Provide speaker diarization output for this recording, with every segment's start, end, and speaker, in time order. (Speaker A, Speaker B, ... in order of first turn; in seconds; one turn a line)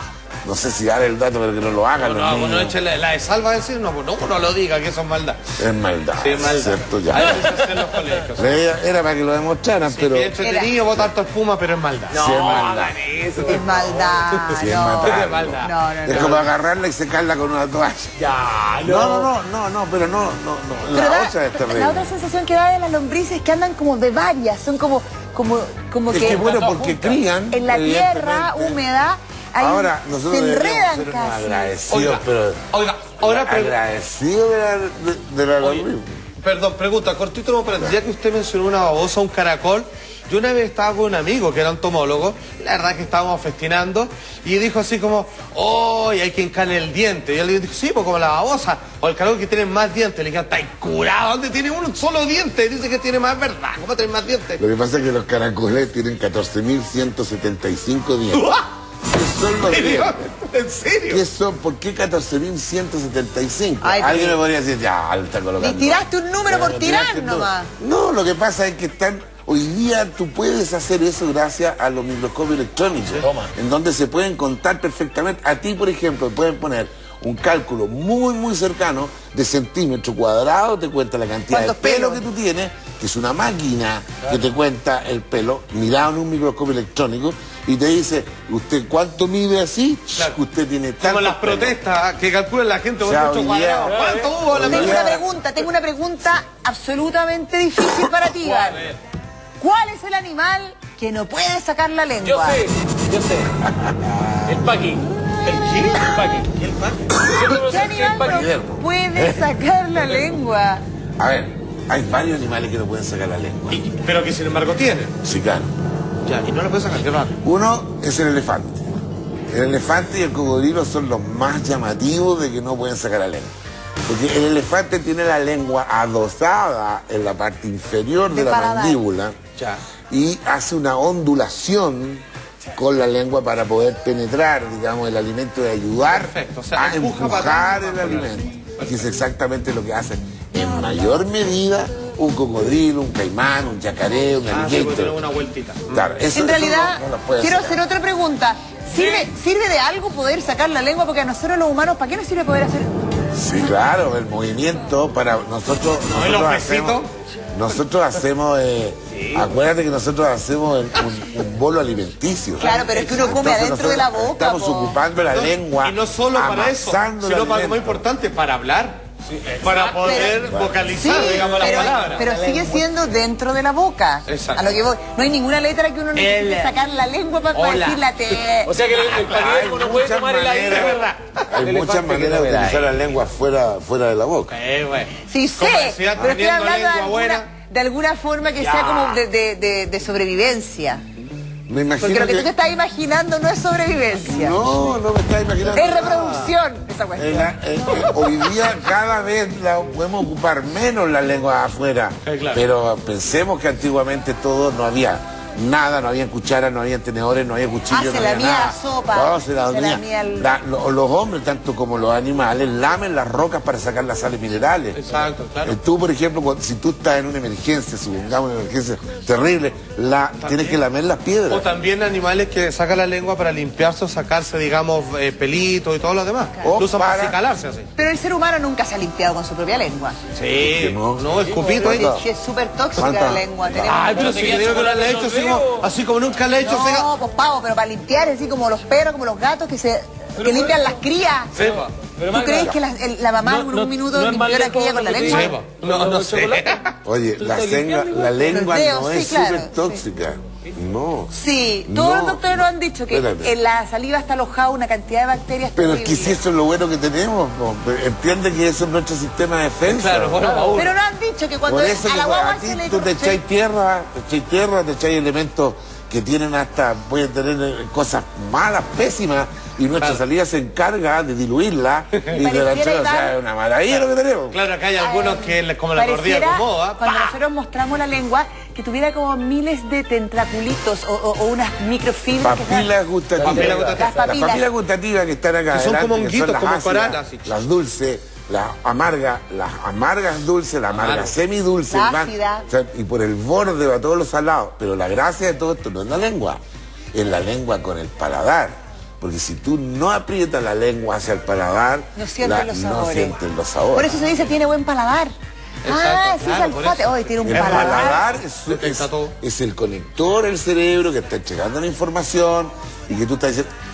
Speaker A: 0.5-2.8
Speaker B: 2.0-5.4
Speaker A: 5.6-7.4
Speaker B: 6.2-8.6
Speaker C: 7.1-8.1
Speaker A: 8.4-10.3
Speaker B: 9.8-12.2
Speaker D: 10.4-10.7
Speaker C: 12.1-14.1
Speaker A: 12.1-12.9
Speaker D: 13.4-16.4
Speaker B: 13.8-16.5
Speaker A: 14.5-18.1
Speaker C: 18.2-19.3
Speaker A: 18.8-22.1
Speaker D: 20.9-26.6
Speaker A: 26.1-28.8
Speaker B: 26.2-27.2
Speaker D: 27.5-31.8
Speaker A: 29.6-32.7
Speaker B: 31.9-33.8
Speaker A: 33.2-36.2
Speaker B: 35.6-54.6
Speaker A: 54.6-58.5
Speaker B: 58.3-58.6
Speaker A: 59.0-60.2
Speaker B: 59.7-61.2
Speaker A: 61.1-91.7
Speaker D: 63.8-64.4
Speaker D: 65.6-67.7
Speaker D: 81.5-82.2
Speaker B: 91.0-95.2
Speaker A: 93.0-95.2
Speaker C: 93.9-94.4
Speaker D: 94.6-98.8
Speaker C: 98.4-98.9
Speaker B: 98.6-98.9
Speaker D: 99.6-102.6
Speaker C: 102.2-103.6
Speaker A: 103.6-104.7
Speaker C: 104.5-105.1
Speaker B: 105.4-107.0
Speaker C: 105.9-106.5
Speaker C: 107.3-108.5
Speaker D: 107.4-110.8
Speaker A: 108.2-109.5
Speaker A: 111.2-113.8
Speaker B: 113.7-115.2
Speaker A: 115.2-115.7
Speaker B: 116.2-117.4
Speaker A: 117.4-118.8
Speaker A: 119.5-123.5
Speaker A: 124.0-129.4
Speaker D: 128.3-129.0
Speaker B: 129.6-129.8
Speaker A: 130.1-132.2
Speaker A: 132.8-145.2
Speaker B: 136.1-139.1
Speaker B: 144.5-146.1
Speaker A: 145.9-147.8
Speaker D: 146.3-153.1
Speaker C: 148.9-149.3
Speaker A: 153.3-157.0
Speaker B: 156.1-157.1
Speaker A: 157.5-168.0
Speaker C: 159.1-159.5
Speaker D: 162.6-165.0
Speaker B: 162.6-163.4
Speaker B: 165.1-169.1
Speaker C: 169.3-170.4
Speaker B: 169.6-172.2
Speaker D: 170.0-178.7
Speaker A: 170.4-171.3
Speaker C: 171.2-172.9
Speaker B: 174.3-174.8
Speaker B: 176.1-176.7
Speaker B: 177.5-178.1
Speaker C: 178.6-182.9
Speaker B: 178.9-179.6
Speaker A: 179.2-184.5
Speaker B: 180.7-181.4
Speaker B: 184.5-187.5
Speaker D: 185.2-191.0
Speaker C: 188.6-189.2
Speaker A: 191.7-192.5
Speaker D: 192.0-194.6
Speaker A: 194.2-196.5
Speaker D: 195.7-198.1
Speaker A: 197.2-215.0
Speaker B: 202.3-202.6
Speaker D: 207.9-210.5
Speaker B: 214.9-215.8
Speaker A: 215.6-221.7
Speaker B: 220.4-220.8
Speaker B: 221.5-227.9
Speaker A: 226.6-227.4
Speaker D: 227.9-230.2
Speaker B: 230.3-232.2
Speaker A: 230.6-232.2
Speaker C: 231.3-231.9
Speaker D: 231.8-234.3
Speaker A: 232.9-233.9
Speaker B: 233.8-237.1
Speaker C: 233.8-235.9
Speaker D: 236.6-241.5
Speaker C: 240.4-240.9
Speaker B: 241.6-241.9
Speaker C: 241.6-242.8
Speaker D: 242.3-245.6
Speaker C: 243.4-246.8
Speaker B: 245.2-246.9
Speaker A: 247.1-251.3
Speaker C: 247.4-248.7
Speaker D: 248.5-250.0
Speaker D: 251.3-256.4
Speaker A: 251.9-253.5
Speaker A: 255.8-260.5
Speaker B: 259.8-260.9
Speaker C: 260.4-260.8
Speaker D: 260.8-263.4
Speaker A: 261.7-274.6
Speaker D: 272.4-273.3
Speaker B: 273.9-277.3
Speaker D: 275.0-282.9
Speaker A: 282.4-296.6
Speaker C: 283.4-284.1
Speaker B: 283.4-284.3
Speaker D: 283.8-284.7
Speaker B: 285.7-287.6
Speaker B: 290.9-291.3
Speaker D: 291.9-292.7
Speaker A: 297.1-304.2
Speaker D: 302.2-303.4
Speaker D: 303.9-308.2
Speaker B: 305.8-309.3
Speaker A: 307.4-313.7